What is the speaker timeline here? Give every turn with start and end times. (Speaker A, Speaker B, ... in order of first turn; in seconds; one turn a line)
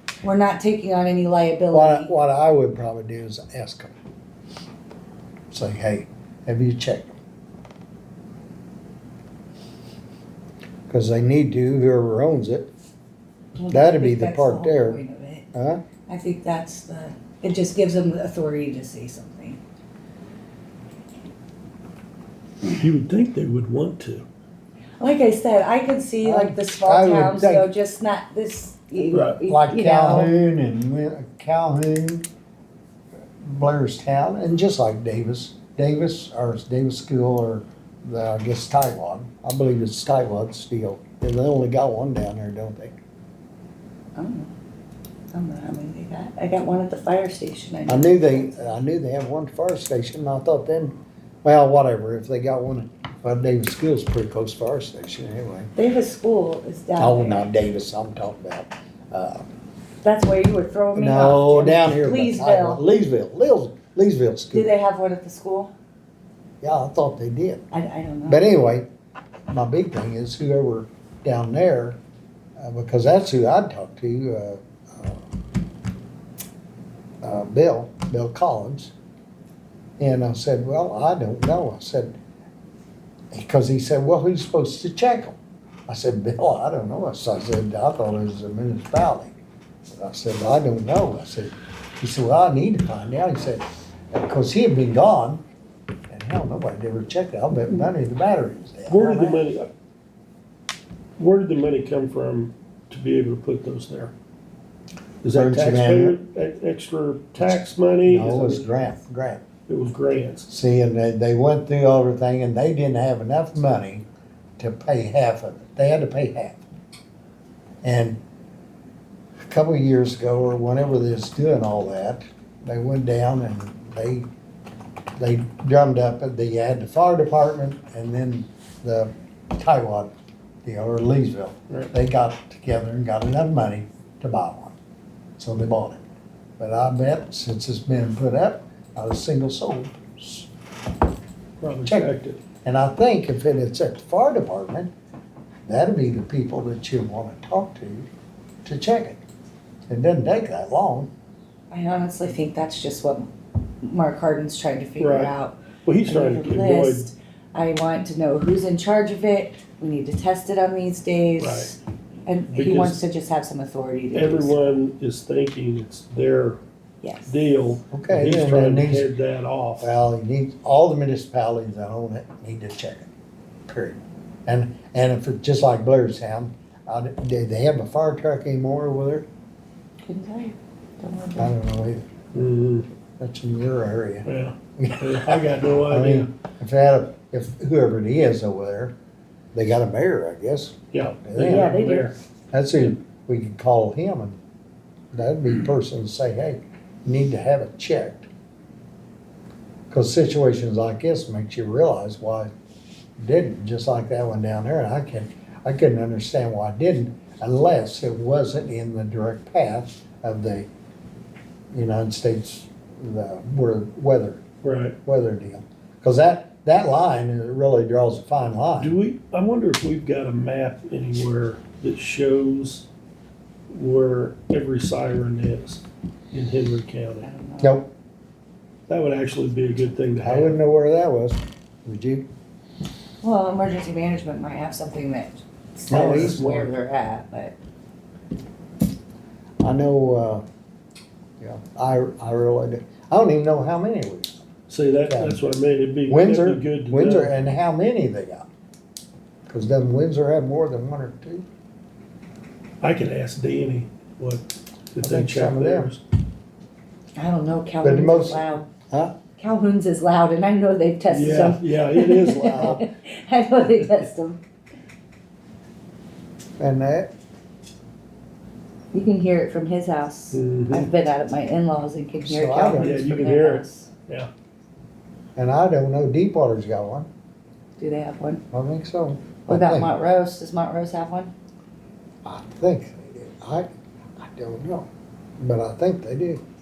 Speaker A: 0.2-2.1
Speaker B: 1.7-3.9
Speaker B: 5.5-7.1
Speaker B: 10.9-12.7
Speaker A: 13.5-15.4
Speaker B: 13.7-15.0
Speaker B: 15.5-15.8
Speaker A: 16.1-19.6
Speaker C: 22.6-24.2
Speaker A: 25.0-30.3
Speaker B: 26.2-27.7
Speaker C: 29.1-29.4
Speaker B: 29.4-32.2
Speaker B: 33.4-43.0
Speaker A: 44.1-44.5
Speaker A: 45.3-48.7
Speaker B: 47.9-55.7
Speaker A: 55.8-57.5
Speaker B: 57.0-59.5
Speaker A: 60.0-62.8
Speaker B: 60.9-64.7
Speaker A: 64.5-65.7
Speaker B: 66.6-67.6
Speaker A: 67.7-68.5
Speaker B: 68.2-68.8
Speaker B: 69.5-72.0
Speaker B: 72.6-75.2
Speaker B: 77.2-78.9
Speaker B: 80.0-82.1
Speaker B: 83.3-85.4
Speaker B: 85.9-89.4
Speaker B: 89.9-95.4
Speaker B: 96.1-99.4
Speaker C: 98.9-99.7
Speaker C: 101.2-104.1
Speaker C: 105.2-108.6
Speaker B: 105.3-106.2
Speaker B: 108.0-109.4
Speaker C: 109.7-110.5
Speaker B: 110.5-114.0
Speaker B: 114.6-116.6
Speaker B: 117.8-118.2
Speaker B: 119.5-124.2
Speaker B: 125.2-130.1
Speaker B: 130.6-134.8
Speaker B: 135.4-136.0
Speaker B: 136.6-140.5
Speaker C: 141.6-142.4
Speaker B: 142.6-144.9
Speaker B: 145.7-148.1
Speaker B: 148.6-149.2
Speaker B: 149.9-151.1
Speaker A: 151.7-164.7
Speaker C: 155.0-155.3
Speaker C: 155.8-157.1
Speaker C: 161.4-161.7
Speaker C: 162.5-163.0
Speaker C: 164.1-166.6
Speaker A: 167.0-167.3
Speaker C: 167.3-169.9
Speaker B: 167.9-169.1
Speaker B: 169.8-173.1
Speaker B: 173.7-179.2
Speaker A: 180.1-181.5
Speaker B: 181.4-182.1
Speaker C: 182.3-182.9
Speaker B: 183.2-188.9
Speaker C: 184.2-186.3
Speaker B: 189.5-191.8
Speaker C: 190.9-192.1
Speaker A: 191.4-192.1
Speaker B: 192.5-194.4
Speaker B: 195.1-198.3
Speaker B: 199.9-202.5
Speaker B: 203.2-210.7
Speaker B: 211.7-214.4
Speaker C: 214.6-214.9
Speaker B: 215.0-218.9
Speaker C: 218.8-222.8
Speaker C: 223.7-227.3
Speaker A: 227.2-227.8
Speaker B: 227.6-227.9
Speaker C: 228.9-230.6
Speaker B: 230.2-232.2
Speaker A: 233.2-237.6
Speaker B: 235.9-236.4
Speaker C: 235.9-236.7
Speaker B: 239.6-240.4
Speaker B: 241.4-244.4
Speaker C: 244.7-247.3
Speaker B: 245.1-245.4
Speaker B: 246.1-248.5
Speaker B: 249.5-251.4
Speaker C: 252.8-256.0
Speaker B: 255.0-255.9
Speaker A: 257.2-258.7
Speaker B: 257.8-259.1
Speaker A: 259.4-264.4
Speaker C: 261.1-262.8
Speaker B: 262.3-262.8
Speaker B: 266.6-267.1
Speaker A: 268.9-273.9
Speaker C: 270.3-270.9
Speaker B: 272.2-272.9
Speaker C: 272.8-274.3
Speaker B: 275.4-277.1
Speaker A: 277.8-278.4
Speaker B: 278.5-279.9
Speaker A: 279.5-281.3
Speaker B: 282.2-284.9
Speaker B: 285.4-286.4